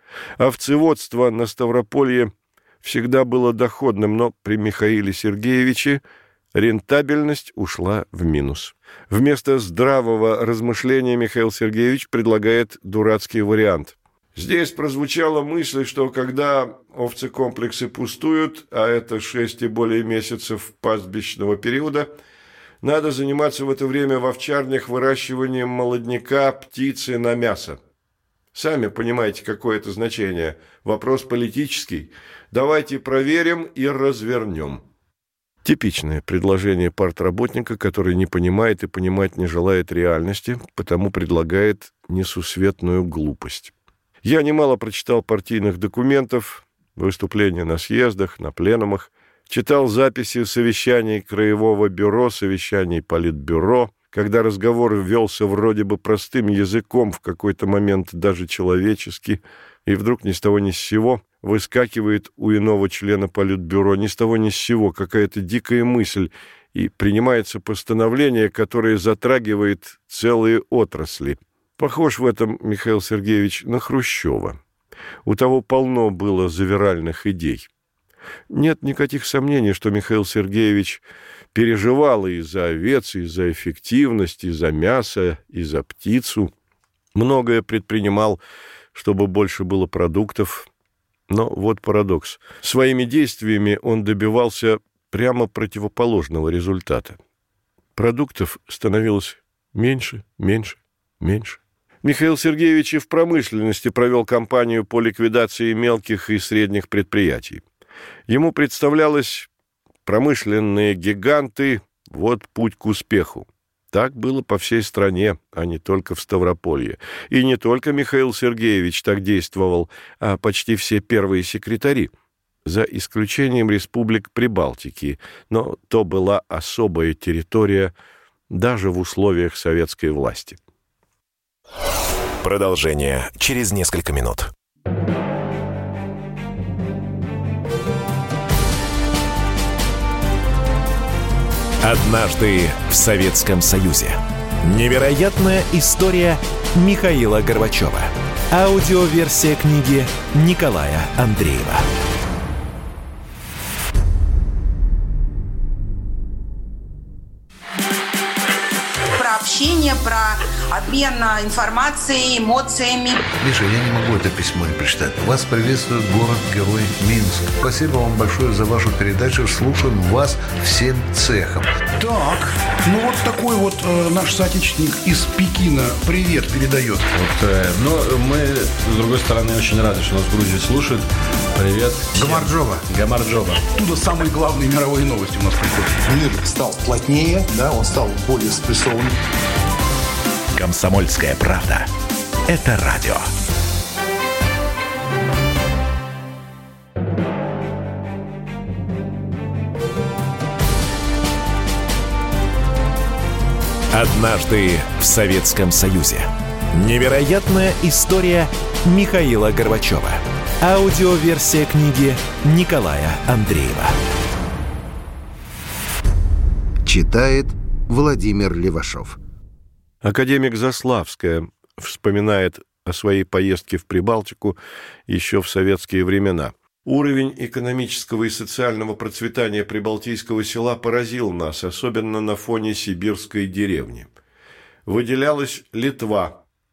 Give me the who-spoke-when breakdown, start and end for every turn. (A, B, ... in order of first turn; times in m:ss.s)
0:00.4-0:02.3 A
0:02.8-0:06.0 A
0:06.5-0:22.1 A
0:22.8-0:27.8 A
0:28.5-0:34.8 A
0:35.6-1:14.6 A
1:15.2-1:17.7 A
1:18.5-1:21.0 A
1:21.5-1:26.5 A
1:27.2-1:28.4 A
1:28.9-1:30.7 A
1:31.3-1:37.2 A
1:38.0-1:47.6 A
1:48.3-1:49.5 A
1:50.1-2:02.1 A
2:02.6-2:07.9 A
2:08.5-2:10.6 A
2:12.4-2:14.5 B
2:21.8-2:31.9 B
2:39.2-2:43.3 C
2:43.4-2:51.7 D
2:52.0-2:57.1 E
2:57.1-3:03.6 F
3:03.7-3:06.0 E
3:06.1-3:09.2 G
3:10.6-3:11.9 B
3:12.5-3:13.3 B
3:23.9-3:34.0 B
3:36.8-3:39.2 H
3:40.0-3:44.6 A
3:45.1-3:54.1 A
3:54.9-3:56.4 A